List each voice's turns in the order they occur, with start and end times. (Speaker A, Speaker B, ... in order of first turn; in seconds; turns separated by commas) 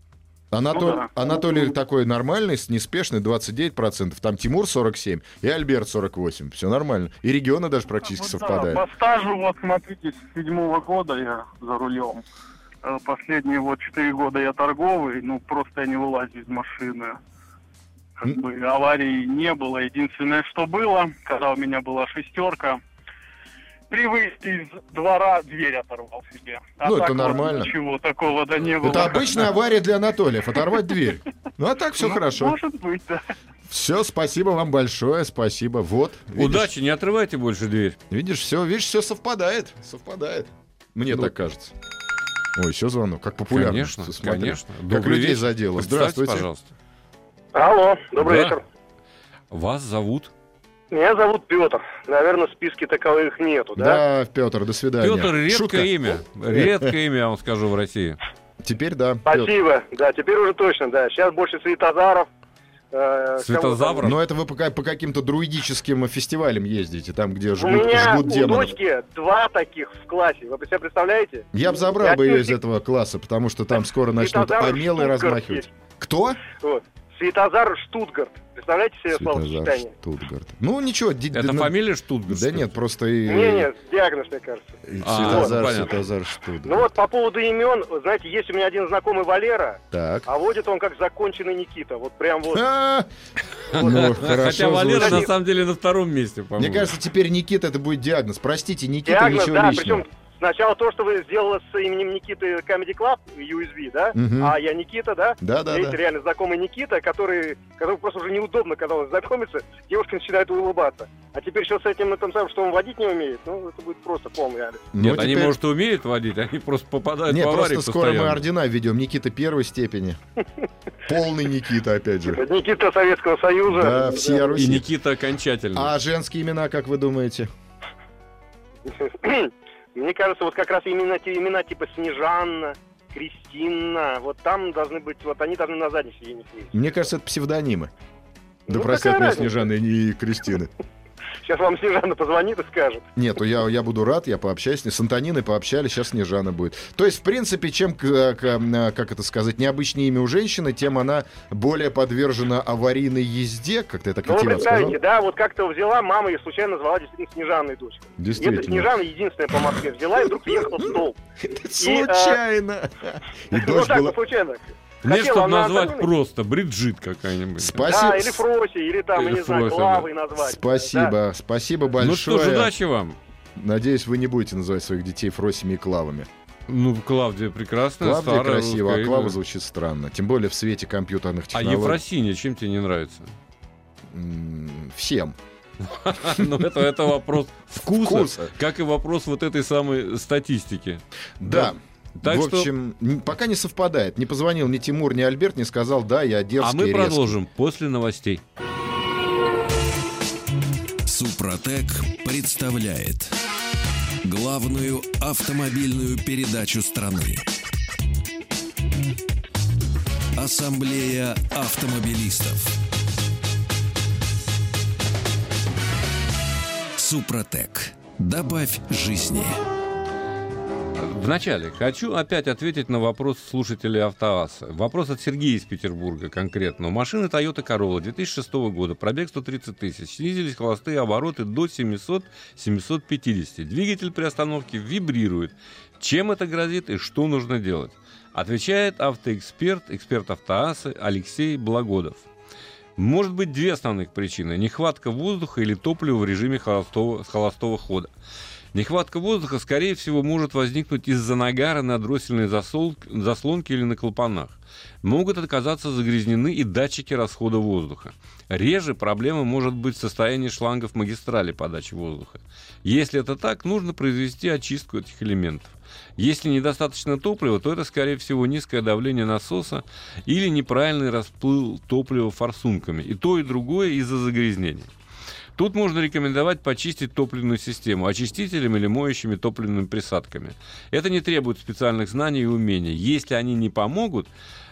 Speaker A: 0.5-8.8, Speaker B: 0.7-1.7, Speaker B: 8.0-12.2, Speaker B: 12.8-17.2, Speaker B: 18.2-22.8, Speaker B: 23.9-29.5, Speaker A: 26.8-27.7, Speaker A: 28.8-32.6, Speaker B: 32.0-33.2, Speaker A: 33.7-36.7, Speaker C: 36.4-38.0, Speaker A: 38.1-41.7, Speaker A: 42.6-46.5, Speaker C: 43.5-46.7, Speaker D: 47.5-48.6, Speaker C: 48.2-48.6, Speaker C: 49.5-50.3, Speaker D: 50.9-54.0, Speaker A: 53.8-56.9, Speaker C: 55.0-58.2, Speaker A: 58.6-59.5, Speaker D: 59.3-62.3, Speaker D: 62.9-64.1, Speaker C: 63.4-64.2, Speaker A: 64.0-68.8, Speaker D: 67.6-72.6, Speaker A: 71.5-76.4, Speaker D: 74.2-75.7, Speaker D: 76.5-79.9, Speaker A: 79.1-83.7, Speaker C: 81.3-82.8, Speaker D: 83.3-85.5, Speaker A: 84.9-87.0, Speaker C: 85.0-86.0, Speaker D: 86.6-92.6, Speaker A: 89.9-90.3, Speaker A: 92.5-93.1, Speaker C: 93.7-96.9, Speaker A: 93.8-95.3, Speaker D: 93.8-94.1, Speaker D: 95.0-95.3, Speaker A: 96.6-100.0, Speaker D: 99.0-114.9, Speaker A: 104.2-104.6, Speaker A: 105.4-106.0, Speaker A: 114.9-115.6, Speaker C: 115.0-118.5, Speaker A: 117.3-120.2, Speaker A: 121.1-122.4, Speaker D: 122.3-124.5, Speaker A: 123.7-124.9, Speaker C: 124.5-125.9, Speaker A: 125.7-127.5, Speaker D: 129.0-136.7, Speaker A: 136.7-137.9, Speaker D: 138.7-139.6, Speaker A: 138.7-140.7, Speaker D: 141.4-143.0, Speaker A: 143.2-155.0, Speaker D: 154.2-161.2, Speaker A: 158.2-158.9, Speaker A: 160.8-164.2, Speaker D: 161.8-162.4, Speaker D: 163.5-166.1, Speaker C: 165.1-167.9, Speaker A: 167.6-168.4, Speaker D: 167.9-171.1, Speaker C: 169.2-170.1, Speaker A: 170.4-172.7, Speaker C: 172.0-173.2, Speaker A: 173.6-176.3, Speaker C: 176.7-179.4, Speaker A: 178.0-182.0, Speaker C: 181.5-183.3, Speaker A: 184.1-185.4, Speaker C: 185.8-192.7, Speaker A: 187.8-188.5, Speaker A: 191.4-197.4, Speaker C: 196.6-198.4, Speaker E: 201.1-203.3, Speaker E: 204.2-207.5, Speaker E: 210.4-212.8, Speaker E: 217.0-219.6, Speaker C: 221.0-242.3, Speaker C: 243.0-248.1, Speaker C: 248.7-274.9, Speaker C: 275.6-284.3